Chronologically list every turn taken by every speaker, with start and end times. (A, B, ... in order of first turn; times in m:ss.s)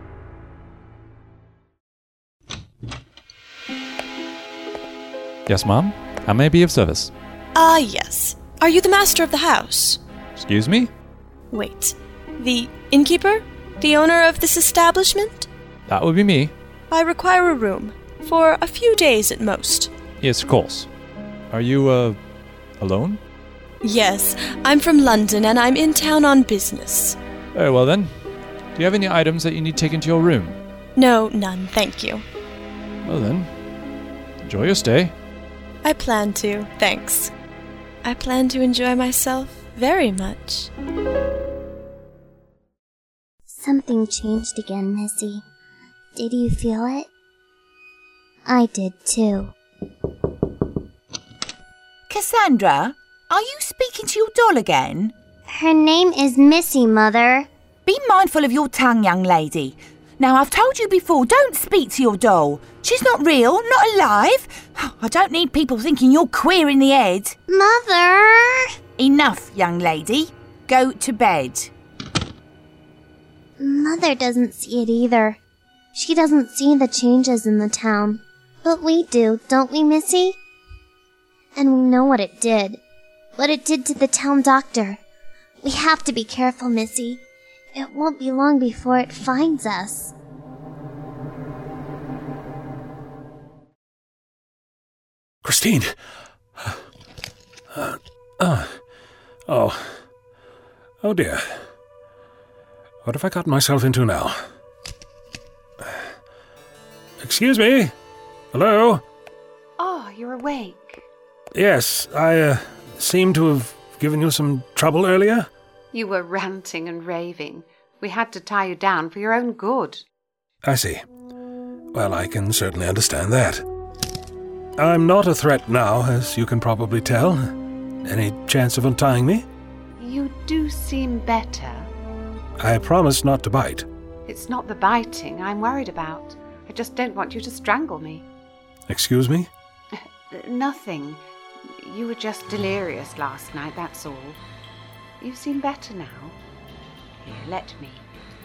0:05.5-0:07.1 A
0:07.5-0:10.0 B
0:10.4-0:10.9 A
0:11.5-0:15.5 B
0:15.9-0:16.5 A
0:16.9-0:19.9 B
0:20.2-0:20.9 A
0:21.5-0:22.2 A
0:22.8-0:23.2 A
0:23.8-0:27.2 B
0:27.5-0:30.6 A
0:30.9-0:32.2 B
0:33.0-0:33.6 A
0:34.4-0:35.1 A
0:35.8-0:37.3 B
0:38.0-0:40.7 B
0:43.5-0:45.4 C
0:46.1-0:47.1 C
0:48.4-0:49.5 C
0:52.1-0:55.1 D
0:55.5-0:57.5 C
0:57.8-1:07.4 D
1:07.5-1:08.6 C
1:09.0-1:11.7 D
1:13.6-1:15.4 C
1:15.9-1:20.4 C
1:21.6-1:22.8 C
1:23.4-1:25.0 C
1:25.6-1:27.2 C
1:27.7-1:30.1 C
1:35.4-1:35.9 E
1:37.7-1:38.8 E
1:39.5-1:39.9 E
1:41.0-1:41.4 E
1:43.0-1:44.4 E
1:47.2-1:47.9 E
1:48.5-1:49.0 E
1:49.8-1:51.0 F
1:51.5-1:55.5 E
1:55.9-2:00.0 F
2:00.6-2:01.0 E
2:01.9-2:03.6 E
2:04.8-2:07.5 E
2:08.0-2:09.4 E
2:10.0-2:11.9 F
2:12.6-2:13.9 E
2:14.2-2:18.3 F
2:18.9-2:19.5 E
2:20.3-2:21.2 F
2:21.8-2:24.4 F
2:25.2-2:26.4 F
2:27.2-2:28.0 F